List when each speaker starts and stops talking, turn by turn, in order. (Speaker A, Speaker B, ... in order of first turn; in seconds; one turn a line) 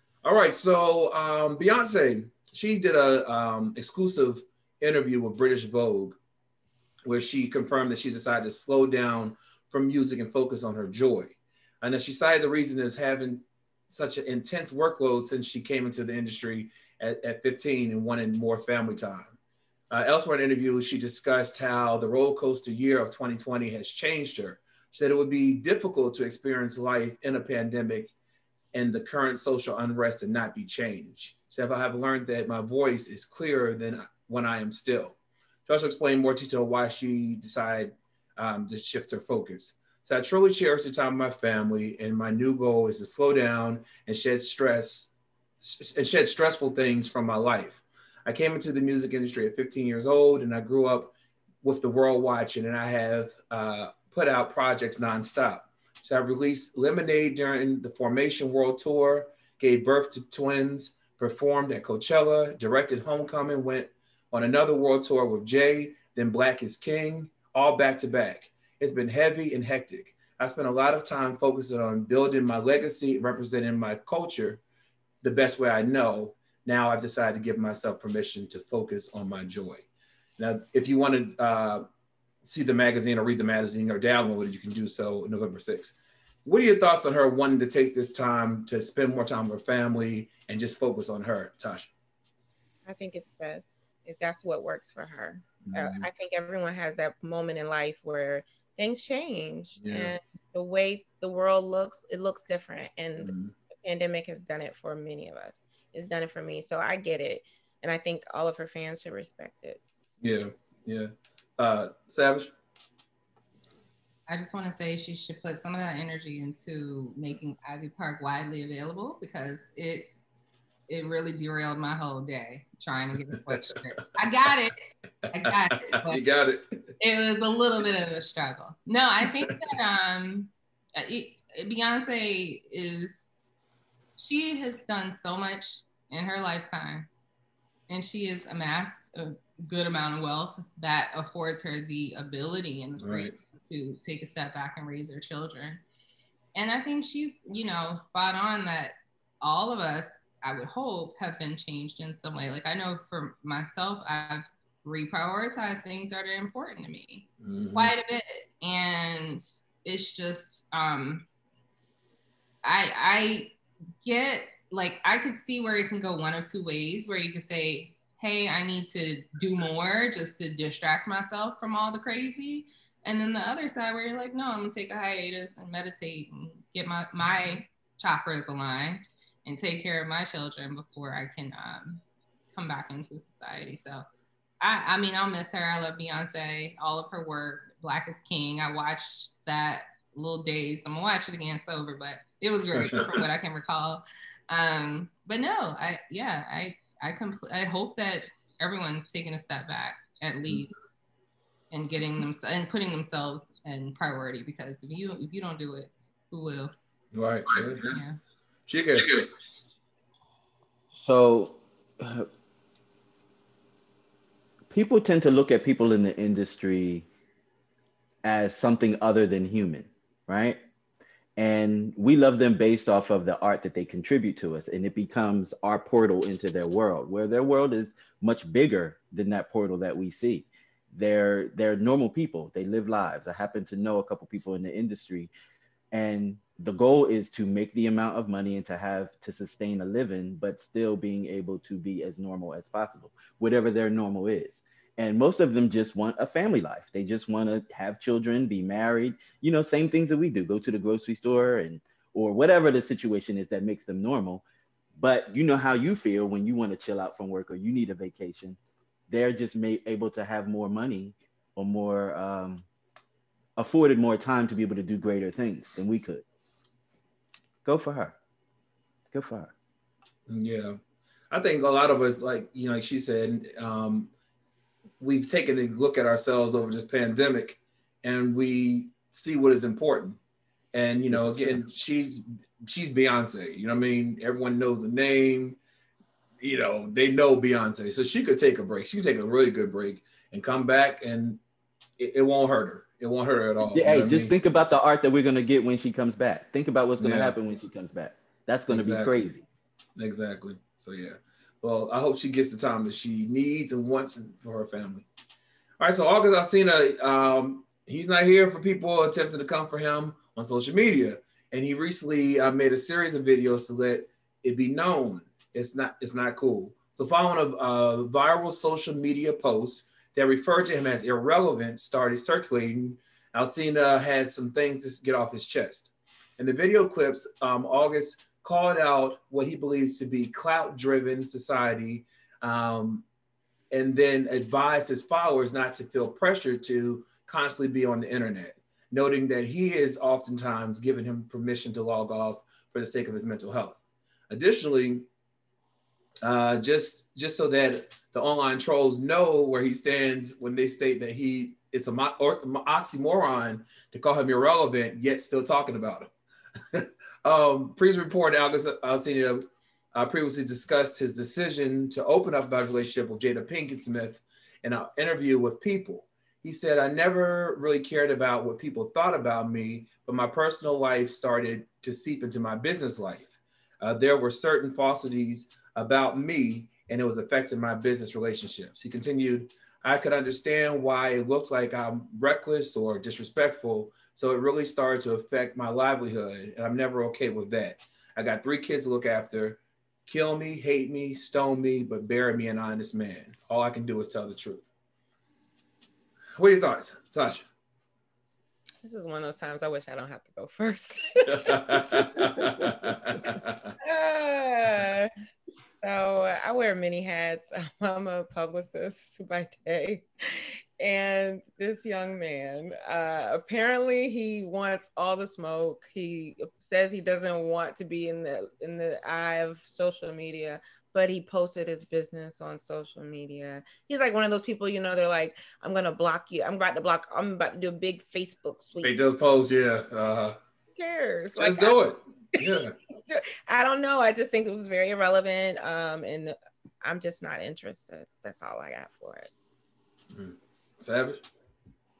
Speaker A: 0.2-6.2
Speaker A: 7.0-19.3
Speaker A: 19.9-28.1
Speaker A: 28.7-74.6
Speaker A: 75.2-79.9
Speaker A: 80.4-81.8
Speaker A: 82.4-91.9
Speaker B: 92.8-109.8
Speaker A: 95.6-96.0
Speaker A: 99.8-100.1
Speaker A: 103.2-103.5
Speaker A: 110.2-112.5
Speaker C: 114.3-120.1
Speaker C: 120.9-124.7
Speaker C: 125.3-126.2
Speaker A: 126.0-126.8
Speaker C: 127.0-133.2
Speaker C: 134.2-137.1
Speaker C: 137.9-145.8
Speaker A: 143.0-143.3
Speaker C: 146.5-161.2
Speaker A: 157.4-157.9
Speaker C: 162.6-182.0
Speaker C: 182.5-184.0
Speaker C: 184.6-200.8
Speaker A: 192.8-193.1
Speaker C: 201.7-206.7
Speaker A: 207.1-207.8
Speaker C: 207.7-208.2
Speaker A: 208.7-209.3
Speaker D: 210.9-212.3
Speaker D: 214.7-217.1
Speaker D: 218.2-220.6
Speaker D: 221.4-235.3
Speaker D: 235.9-254.4
Speaker D: 255.0-258.6
Speaker D: 259.1-262.6
Speaker D: 263.6-266.2
Speaker D: 267.6-268.1
Speaker D: 269.1-269.5
Speaker A: 270.3-270.8
Speaker A: 271.3-274.1
Speaker A: 275.0-280.2
Speaker A: 280.7-285.6
Speaker D: 281.1-281.6
Speaker A: 286.4-291.4
Speaker A: 292.0-294.3
Speaker D: 293.6-299.4
Speaker A: 297.0-297.4
Speaker A: 298.7-299.1
Speaker A: 300.0-305.1
Speaker A: 305.8-333.1
Speaker A: 333.7-345.1
Speaker A: 346.2-356.1
Speaker A: 356.7-394.7
Speaker A: 396.4-397.4
Speaker B: 398.8-402.1
Speaker A: 401.4-403.7
Speaker B: 403.8-405.1
Speaker B: 405.8-428.9
Speaker A: 428.8-430.4
Speaker B: 430.7-431.8
Speaker A: 431.4-432.7
Speaker B: 432.9-439.3
Speaker A: 440.1-441.2